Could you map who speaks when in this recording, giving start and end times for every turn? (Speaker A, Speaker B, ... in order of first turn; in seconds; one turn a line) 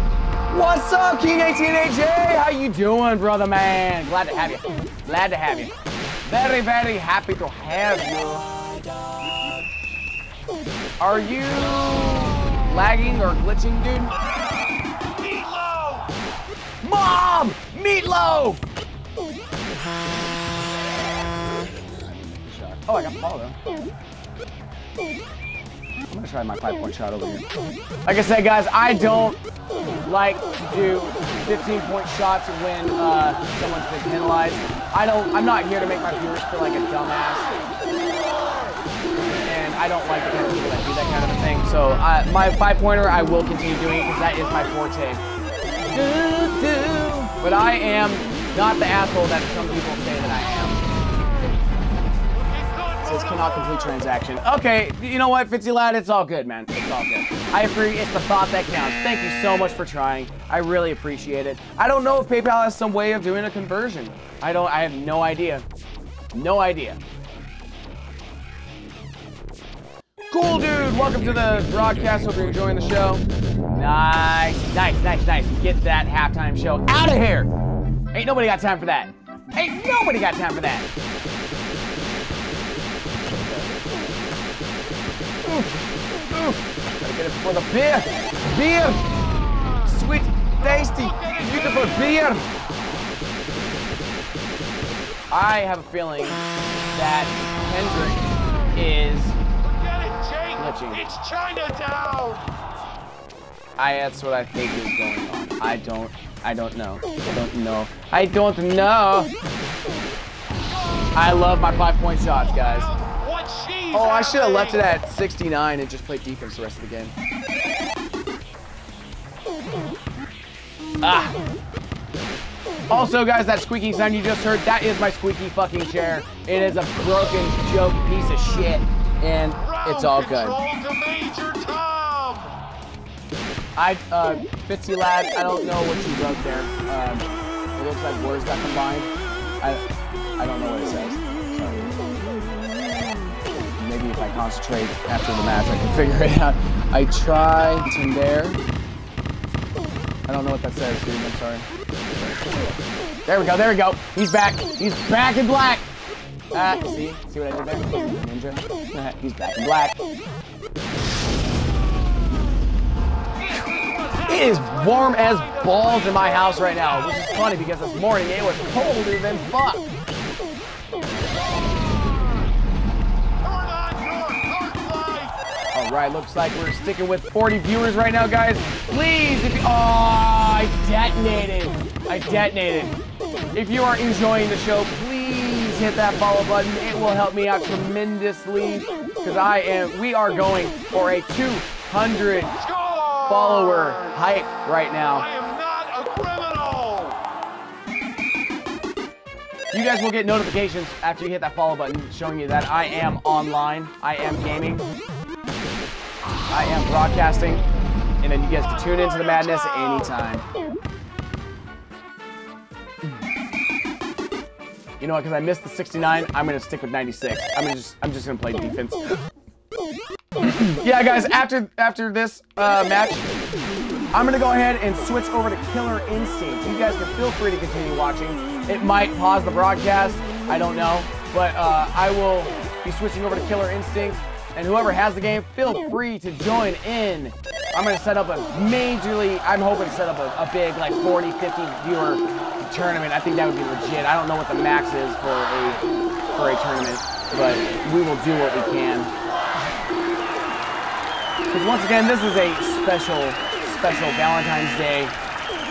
Speaker A: 0.5-5.7
Speaker A: 6.2-8.5
Speaker A: 11.0-14.1
Speaker B: 12.2-12.9
Speaker B: 14.2-16.1
Speaker A: 16.8-18.6
Speaker A: 21.9-23.6
Speaker A: 26.1-27.4
Speaker A: 28.0-29.4
Speaker A: 30.0-37.5
Speaker A: 39.4-45.2
Speaker A: 45.9-50.8
Speaker B: 51.1-51.5
Speaker B: 52.3-54.0
Speaker A: 53.0-65.7
Speaker A: 66.3-67.0
Speaker A: 70.3-77.5
Speaker A: 78.1-80.9
Speaker A: 85.5-85.7
Speaker A: 86.3-89.1
Speaker B: 88.8-90.0
Speaker A: 89.8-92.5
Speaker B: 90.6-92.3
Speaker A: 95.3-98.2
Speaker B: 98.1-98.8
Speaker A: 98.7-99.4
Speaker B: 99.6-102.5
Speaker A: 100.6-101.0
Speaker A: 103.8-109.3
Speaker B: 110.7-114.9
Speaker A: 111.1-112.9
Speaker A: 113.9-117.1
Speaker A: 121.0-121.4
Speaker A: 122.9-130.6
Speaker B: 129.6-132.5
Speaker A: 133.8-137.2
Speaker A: 137.8-139.1
Speaker A: 140.4-141.9
Speaker A: 143.8-148.6
Speaker A: 150.3-151.7
Speaker A: 153.2-155.8
Speaker A: 156.5-160.0
Speaker B: 163.3-167.3
Speaker A: 164.3-169.9
Speaker B: 171.5-172.5
Speaker B: 173.4-175.3
Speaker A: 175.7-183.0
Speaker A: 183.5-192.5
Speaker B: 192.5-194.2
Speaker A: 193.3-195.3
Speaker B: 195.1-197.2
Speaker A: 199.7-204.9
Speaker A: 206.5-207.6
Speaker A: 208.2-210.4
Speaker B: 208.9-210.1
Speaker A: 215.0-219.2
Speaker A: 220.4-223.3
Speaker A: 224.1-249.1
Speaker A: 251.5-255.2